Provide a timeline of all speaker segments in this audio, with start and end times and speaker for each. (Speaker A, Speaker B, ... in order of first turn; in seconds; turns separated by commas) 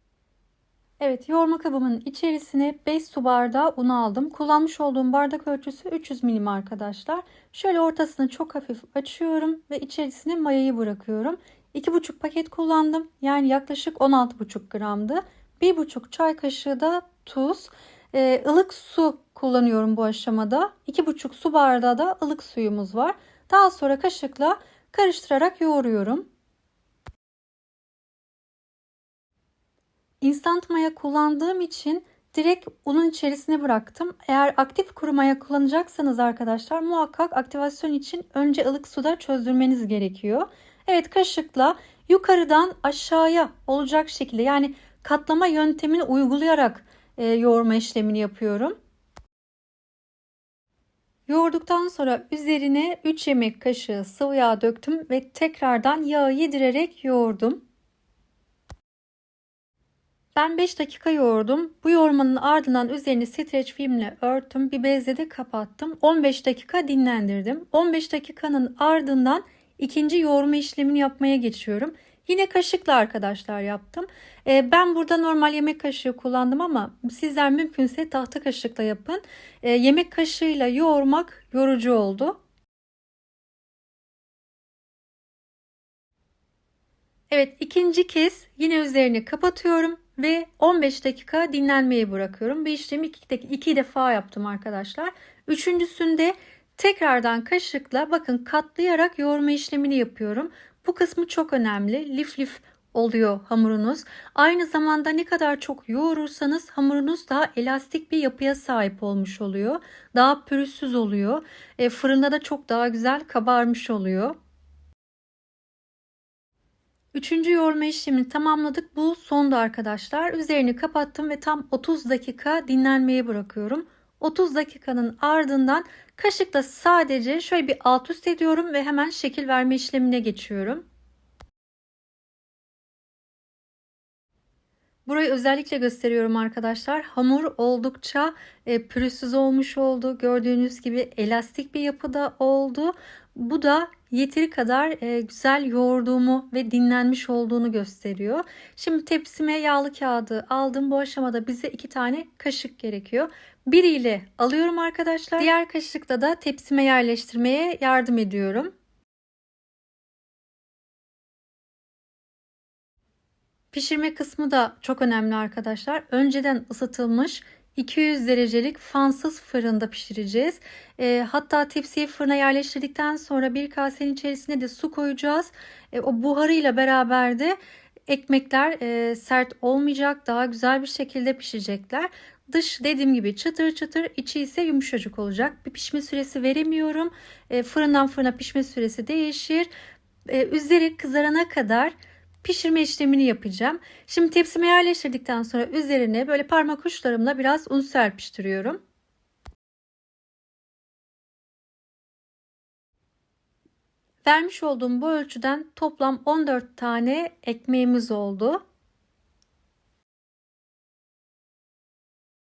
Speaker A: 1.0-26.3, Speaker A: 30.2-48.8, Speaker A: 51.3-57.6, Speaker A: 60.4-82.4, Speaker A: 87.3-114.4, Speaker A: 117.1-130.8, Speaker A: 135.1-158.7, Speaker A: 163.7-177.6, Speaker A: 178.1-189.7, Speaker A: 190.3-198.8, Speaker A: 204.2-208.6